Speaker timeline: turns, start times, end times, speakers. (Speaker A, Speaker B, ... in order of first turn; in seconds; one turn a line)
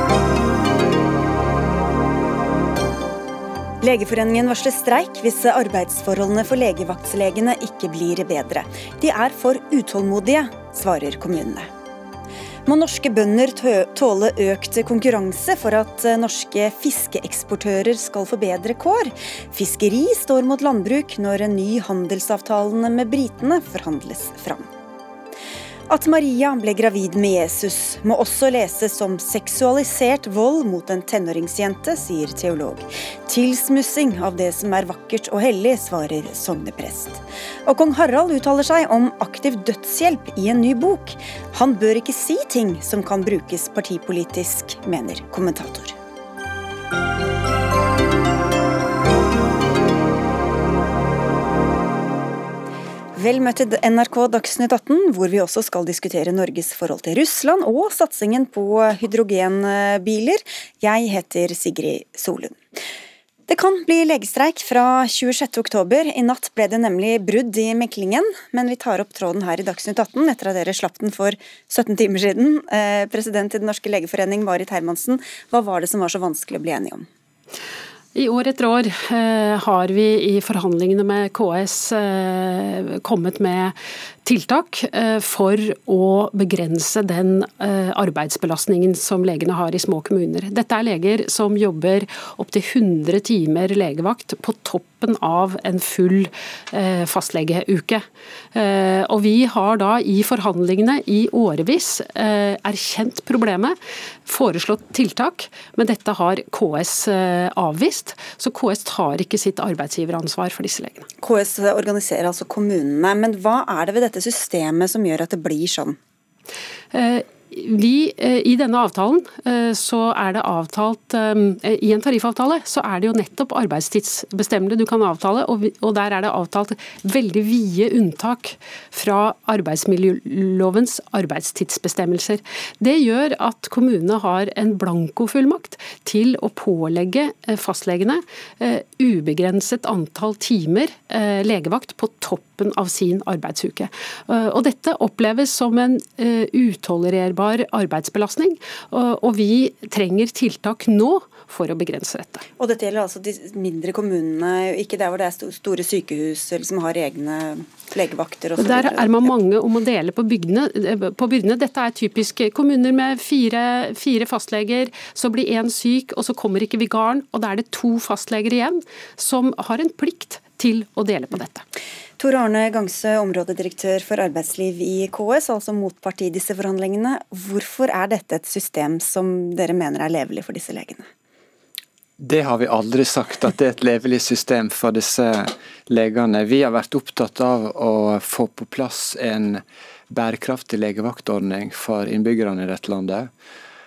Speaker A: 3.8-11.7
Speaker A: 12.7-24.7
Speaker A: 25.9-45.9
Speaker A: 53.1-62.6
Speaker A: 63.5-77.1
Speaker B: 78.1-111.0
Speaker A: 111.2-116.0
Speaker B: 116.9-152.4
Speaker A: 152.6-159.2
Speaker B: 158.6-171.6
Speaker A: 172.2-181.1
Speaker C: 182.2-193.3